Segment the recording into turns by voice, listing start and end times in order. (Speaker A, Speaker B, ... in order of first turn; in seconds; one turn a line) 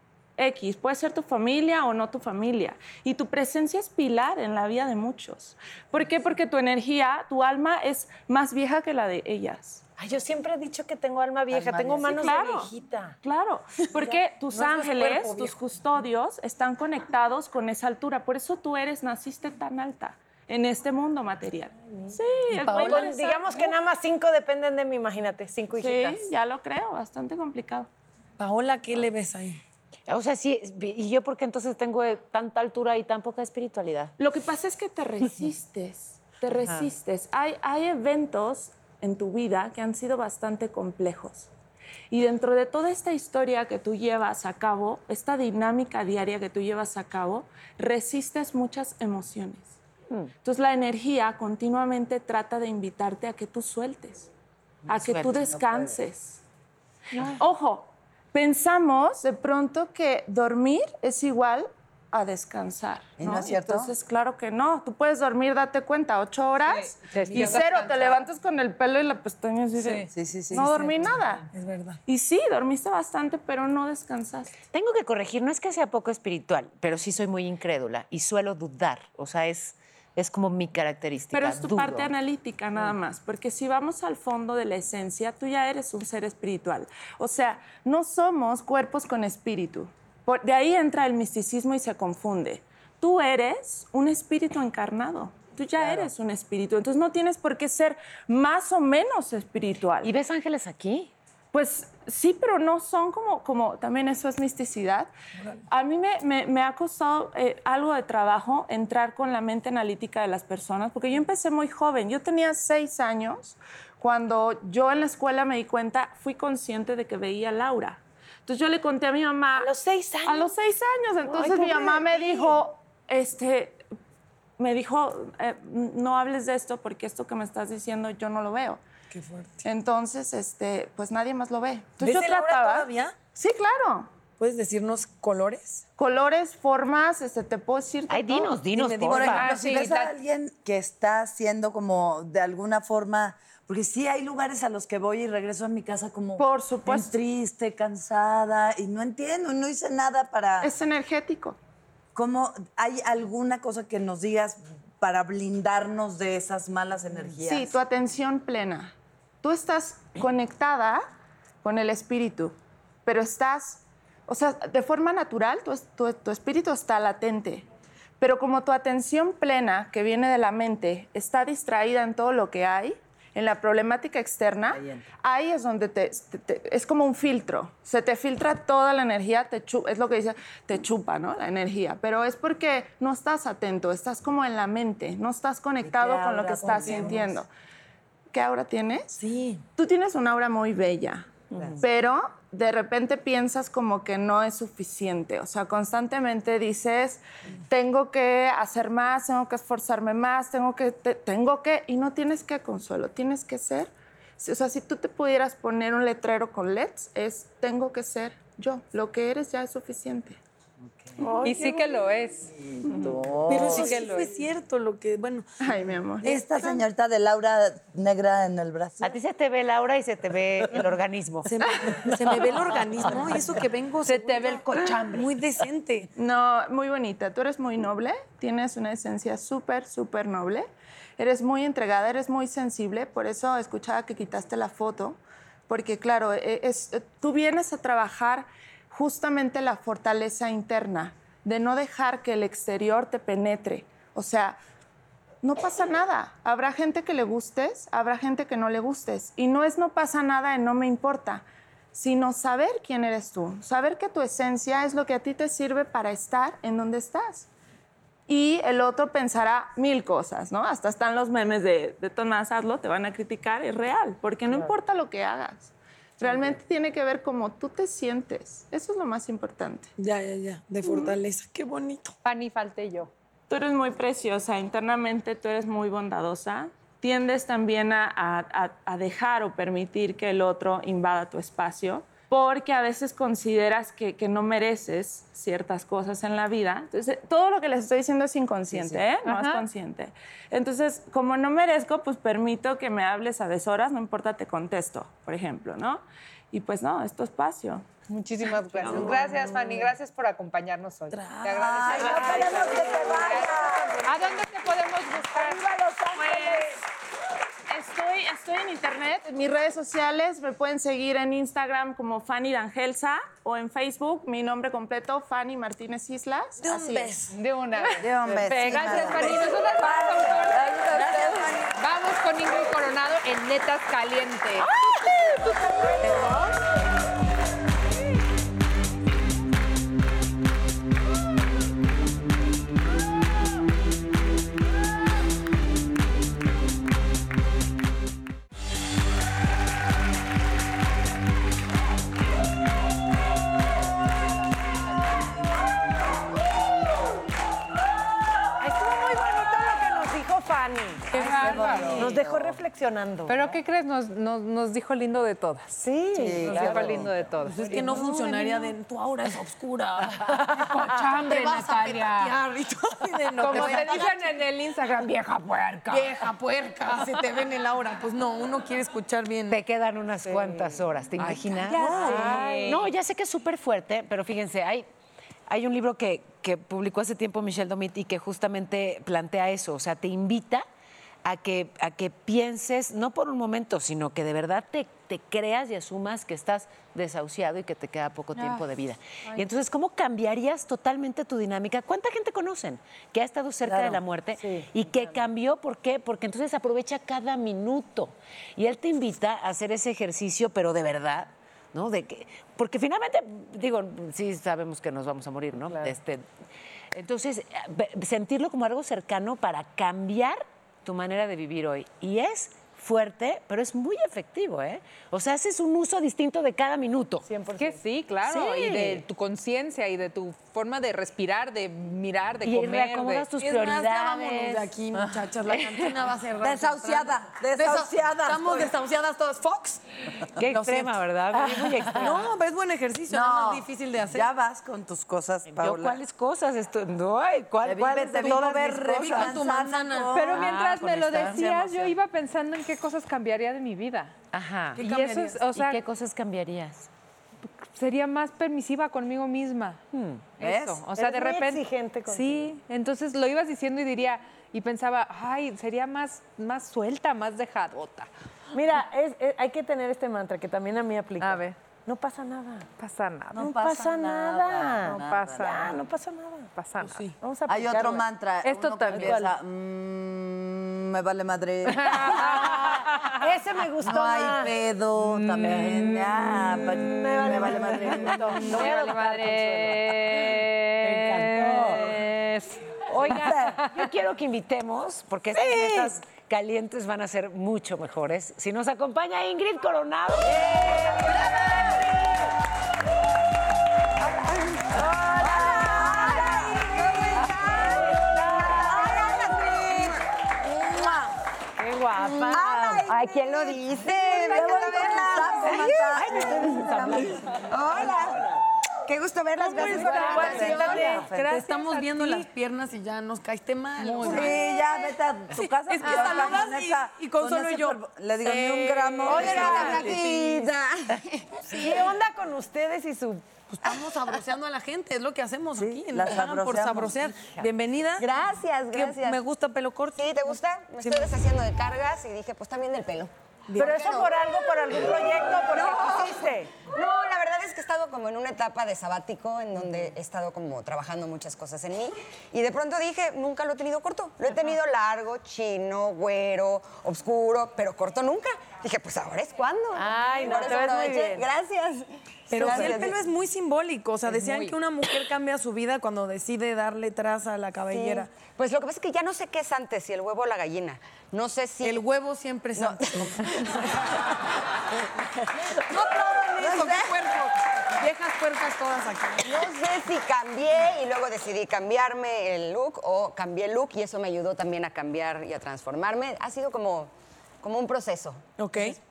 Speaker A: 0.4-9.8
Speaker B: 10.0-13.2
Speaker C: 11.5-12.1
Speaker A: 12.0-23.7
Speaker B: 14.1-15.4
Speaker D: 14.5-15.5
Speaker B: 22.0-26.3
Speaker A: 25.8-27.9
Speaker D: 28.4-29.6
Speaker E: 30.1-34.1
Speaker A: 34.2-41.5
Speaker A: 42.1-49.7
Speaker A: 50.4-54.3
Speaker E: 54.9-55.5
Speaker A: 54.9-56.4
Speaker A: 57.4-71.5
Speaker C: 63.2-63.9
Speaker F: 66.7-68.2
Speaker B: 67.1-67.6
Speaker F: 69.8-70.1
Speaker C: 70.1-71.2
Speaker D: 71.5-72.0
Speaker A: 72.1-74.5
Speaker E: 74.7-82.1
Speaker A: 81.3-100.1
Speaker C: 95.8-96.1
Speaker E: 100.0-101.1
Speaker A: 101.5-105.1
Speaker A: 105.7-119.7
Speaker B: 119.5-120.5
Speaker A: 120.2-123.8
Speaker B: 121.3-122.5
Speaker A: 124.6-128.8
Speaker D: 129.1-129.6
Speaker A: 129.6-134.1
Speaker D: 132.0-133.1
Speaker D: 134.4-135.8
Speaker A: 136.0-138.7
Speaker E: 138.1-139.5
Speaker D: 138.7-139.5
Speaker C: 139.0-150.7
Speaker F: 139.3-140.1
Speaker A: 146.4-147.1
Speaker A: 150.6-151.6
Speaker C: 152.1-157.8
Speaker A: 157.4-161.0
Speaker A: 161.6-167.7
Speaker A: 168.2-187.5
Speaker C: 174.7-175.0
Speaker C: 185.9-187.2
Speaker D: 186.6-187.2
Speaker A: 188.3-189.2
Speaker A: 189.8-210.4
Speaker D: 211.2-211.8
Speaker F: 211.4-212.5
Speaker C: 212.7-214.0
Speaker D: 213.5-215.4
Speaker F: 213.5-214.3
Speaker A: 215.6-216.7
Speaker C: 216.2-219.1
Speaker E: 219.0-222.5
Speaker D: 221.4-226.1
Speaker F: 224.0-225.3
Speaker A: 226.2-244.6
Speaker A: 245.4-257.5
Speaker A: 258.3-269.9
Speaker D: 270.0-272.1
Speaker F: 272.2-273.1
Speaker A: 273.5-297.9
Speaker F: 289.2-289.6
Speaker F: 298.1-305.6
Speaker A: 298.7-299.1
Speaker C: 301.1-304.3
Speaker B: 301.9-304.1
Speaker B: 305.3-306.7
Speaker A: 306.1-306.8
Speaker A: 307.7-317.1
Speaker C: 316.6-317.3
Speaker F: 317.3-324.7
Speaker C: 317.9-321.6
Speaker B: 325.4-326.5
Speaker B: 348.6-351.2
Speaker D: 351.1-352.1
Speaker F: 351.1-352.1
Speaker C: 351.5-352.5
Speaker B: 351.9-353.6
Speaker F: 353.3-355.8
Speaker B: 355.8-358.6
Speaker C: 356.1-357.1
Speaker F: 356.4-358.1
Speaker D: 357.6-364.2
Speaker F: 360.3-362.3
Speaker F: 363.4-366.3
Speaker B: 363.4-364.1
Speaker D: 365.9-369.6
Speaker F: 366.9-367.3
Speaker E: 369.5-374.9
Speaker F: 371.6-372.8
Speaker D: 371.7-372.4
Speaker B: 371.7-372.8
Speaker E: 375.5-380.6
Speaker E: 381.2-406.2
Speaker C: 393.7-394.0
Speaker E: 406.9-417.2
Speaker B: 417.2-417.8
Speaker F: 417.6-423.3
Speaker E: 418.2-419.0
Speaker E: 422.4-424.7
Speaker D: 423.4-429.8
Speaker C: 426.4-428.7
Speaker E: 430.4-432.3
Speaker D: 430.4-434.3
Speaker C: 433.1-436.0
Speaker E: 435.5-439.4
Speaker C: 437.6-441.9
Speaker D: 438.1-440.2
Speaker F: 440.1-444.1
Speaker E: 440.2-441.5
Speaker E: 444.3-444.8
Speaker D: 444.8-445.4
Speaker F: 444.8-445.8
Speaker E: 445.5-446.9
Speaker F: 447.7-449.8
Speaker E: 449.9-450.2
Speaker F: 450.4-458.1
Speaker C: 450.4-450.8
Speaker B: 450.9-452.4
Speaker B: 458.5-462.8
Speaker F: 461.2-461.6
Speaker F: 462.8-463.5
Speaker C: 463.3-465.6
Speaker B: 463.4-468.1
Speaker F: 464.9-465.7
Speaker F: 466.6-467.1
Speaker D: 466.8-467.1
Speaker C: 467.5-472.6
Speaker F: 468.4-469.2
Speaker B: 468.7-469.3
Speaker B: 471.8-474.5
Speaker F: 471.9-473.1
Speaker C: 473.8-478.5
Speaker B: 475.4-482.0
Speaker F: 478.3-483.7
Speaker E: 482.9-490.7
Speaker C: 483.0-483.6
Speaker B: 483.1-483.5
Speaker B: 485.3-485.9
Speaker G: 494.0-500.0
Speaker C: 494.8-497.6
Speaker B: 495.0-496.2
Speaker C: 498.5-499.5
Speaker B: 501.6-502.9
Speaker G: 502.3-508.3
Speaker C: 502.3-502.9
Speaker C: 503.8-507.4
Speaker B: 506.0-507.0
Speaker G: 508.9-510.8
Speaker D: 509.4-514.4
Speaker F: 509.4-512.3
Speaker B: 509.8-510.9
Speaker C: 510.2-511.2
Speaker C: 514.0-520.0
Speaker D: 515.4-520.5
Speaker F: 515.8-516.2
Speaker G: 519.1-521.9
Speaker B: 519.1-519.7
Speaker B: 521.5-523.3
Speaker D: 523.5-528.0
Speaker C: 525.6-527.1
Speaker G: 528.0-529.2
Speaker D: 528.7-531.1
Speaker G: 530.0-553.0
Speaker D: 533.5-533.9
Speaker B: 533.6-536.5
Speaker B: 549.7-551.3
Speaker D: 552.3-558.1
Speaker F: 554.1-554.5
Speaker G: 557.7-561.8
Speaker D: 561.6-564.0
Speaker G: 562.5-564.0
Speaker G: 565.3-567.0
Speaker D: 565.5-569.5
Speaker G: 569.2-578.7
Speaker D: 578.4-578.8